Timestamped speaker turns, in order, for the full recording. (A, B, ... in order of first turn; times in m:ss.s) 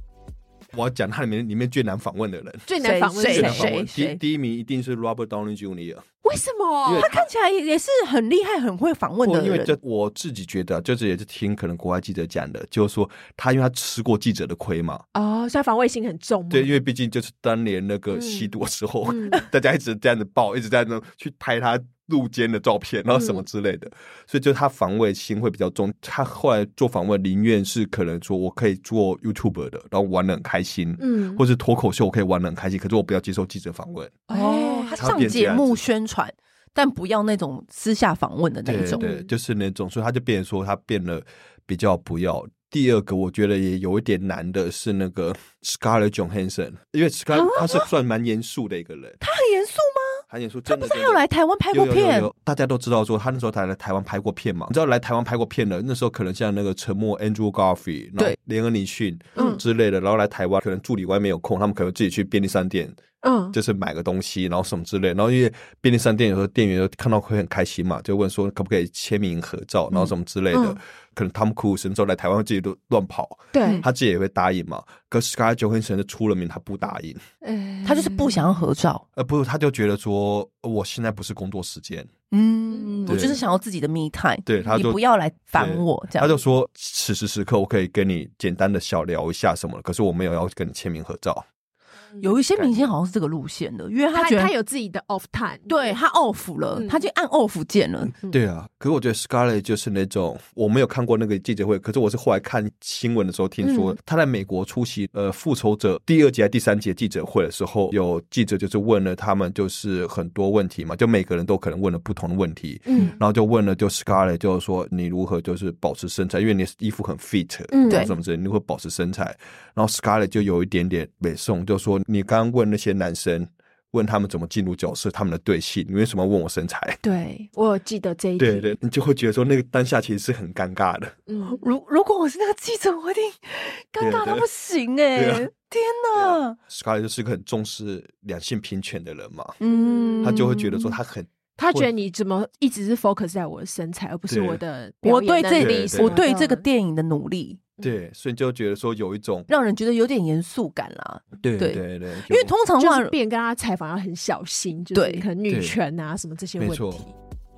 0:00.7-0:02.7 A
0:02.7-0:03.7 B
0:02.8-0:04.2 C
0:03.2-0:06.0 A
0:06.2-0:07.1 B
0:06.8-0:07.3 A
0:07.0-0:09.8 C
0:09.2-0:15.0 A
0:15.1-0:16.8 B
0:16.5-0:34.2 A
0:18.1-0:18.5 B
0:19.0-0:19.4 B
0:23.1-0:23.4 B
0:31.0-0:31.4 B
0:34.3-0:35.6 B
0:34.3-0:39.0 C
0:35.0-0:35.8 A
0:38.6-0:49.2 A
0:38.9-0:39.3 B
0:47.3-0:47.9 C
0:49.2-0:52.3 C
0:50.3-1:03.0 A
0:59.4-0:59.6 B
1:03.2-1:03.5 B
1:03.5-1:17.2 A
1:09.9-1:10.8 B
1:13.5-1:13.8 B
1:17.4-1:18.6 B
1:17.8-1:19.0 C
1:19.2-1:22.1 A
1:22.3-1:26.3 C
1:22.7-1:23.4 B
1:23.1-1:23.4 A
1:24.4-1:25.0 A
1:25.5-1:31.4 A
1:32.2-1:34.5 C
1:32.5-1:32.9 A
1:34.1-1:36.0 B
1:35.7-1:38.1 C
1:36.7-1:37.0 B
1:38.3-2:07.0 A
1:43.6-1:43.9 C
1:52.8-1:53.2 B
1:57.7-1:58.1 B
2:07.0-2:08.8 B
2:08.4-2:11.2 A
2:11.3-2:11.6 B
2:11.4-2:16.6 C
2:14.0-2:14.5 A
2:15.1-2:15.5 A
2:16.1-2:19.6 A
2:19.6-2:20.9 C
2:19.6-2:20.5 B
2:20.2-2:21.9 A
2:21.6-2:26.6 B
2:24.3-2:24.6 A
2:25.0-2:27.6 C
2:25.6-2:26.2 A
2:27.8-2:29.5 A
2:29.5-2:33.1 C
2:31.4-2:32.5 A
2:32.8-2:37.1 B
2:34.9-2:35.2 C
2:35.5-2:35.8 A
2:36.6-2:37.0 A